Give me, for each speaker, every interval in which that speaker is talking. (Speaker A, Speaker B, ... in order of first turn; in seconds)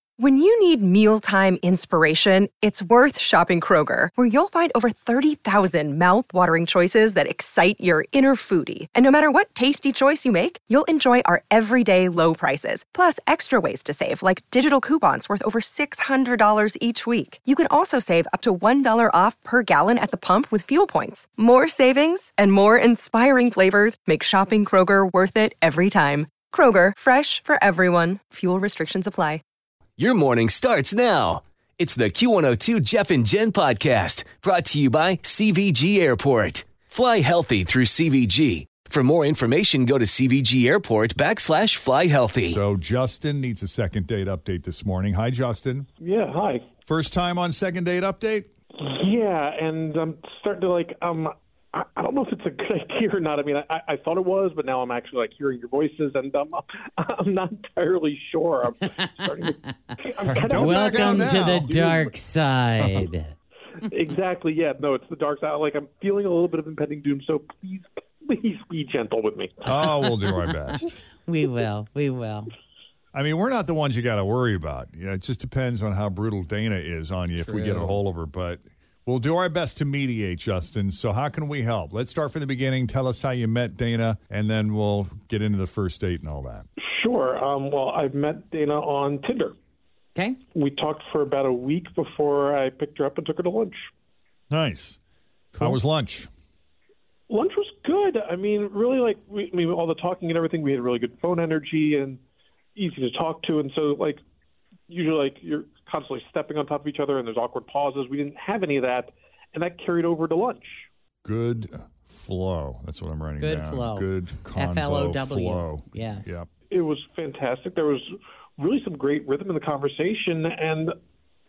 Speaker A: 0.2-29.4
Speaker B: 30.0-42.6
Speaker C: 42.5-45.9, 46.9-48.5, 60.2-61.8, 69.7-71.0, 73.1-86.7, 94.5-95.0, 95.6-96.3, 111.2-116.5
Speaker D: 46.0-46.6, 48.8-62.2, 63.9-70.4, 86.9-89.5, 90.5-93.9, 97.3-102.2, 102.8-104.2, 104.9-110.9, 116.7-120.9
Speaker E: 60.5-63.3, 71.3-72.5, 77.4-78.0, 113.4-116.4